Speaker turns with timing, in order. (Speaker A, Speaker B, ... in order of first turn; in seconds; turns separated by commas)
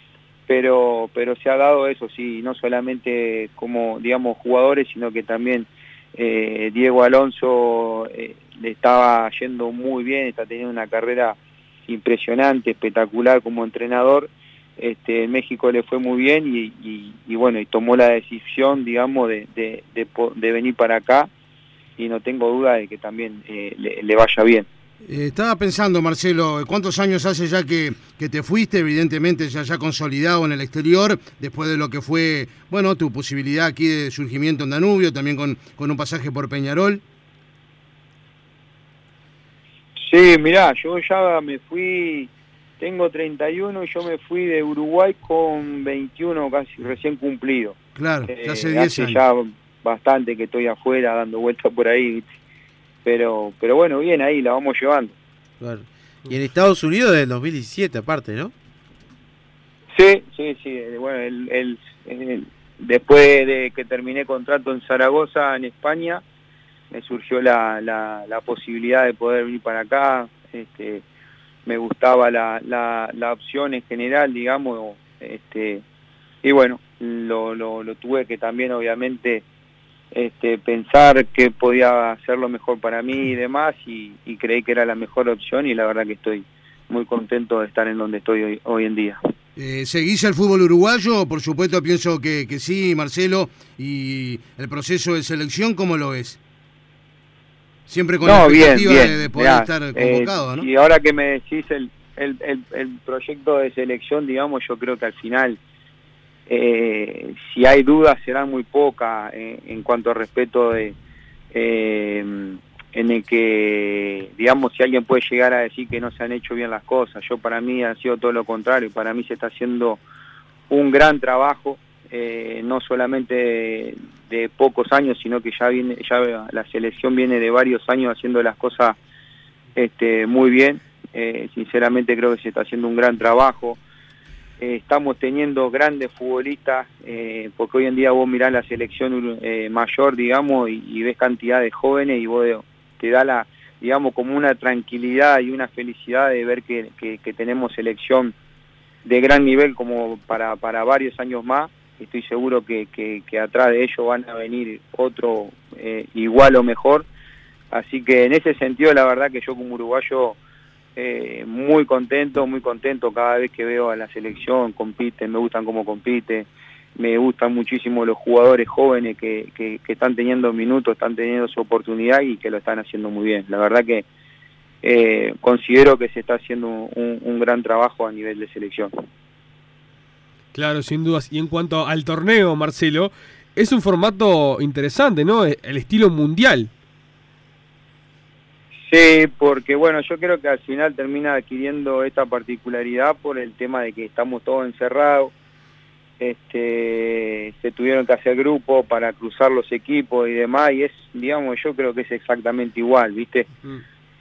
Speaker A: 0.5-21.3, Speaker A: 22.0-24.6, Speaker B: 25.1-37.0, Speaker A: 40.0-47.8, Speaker B: 48.0-49.2, Speaker A: 48.3-52.2, Speaker A: 53.0-55.1, Speaker C: 55.6-58.5, Speaker A: 59.9-66.2, Speaker A: 66.9-71.0, Speaker A: 71.7-75.8, Speaker A: 76.4-79.4, Speaker A: 80.1-89.2, Speaker B: 89.6-96.4, Speaker B: 97.9-100.7, Speaker A: 98.2-105.6, Speaker A: 106.5-111.0, Speaker A: 111.5-120.0, Speaker A: 120.7-129.0, Speaker A: 129.7-133.8, Speaker A: 134.6-148.3, Speaker A: 149.0-157.1, Speaker A: 157.7-160.4, Speaker A: 160.9-174.1, Speaker A: 174.8-178.9, Speaker D: 180.5-186.7, Speaker A: 188.9-195.3, Speaker A: 196.2-203.5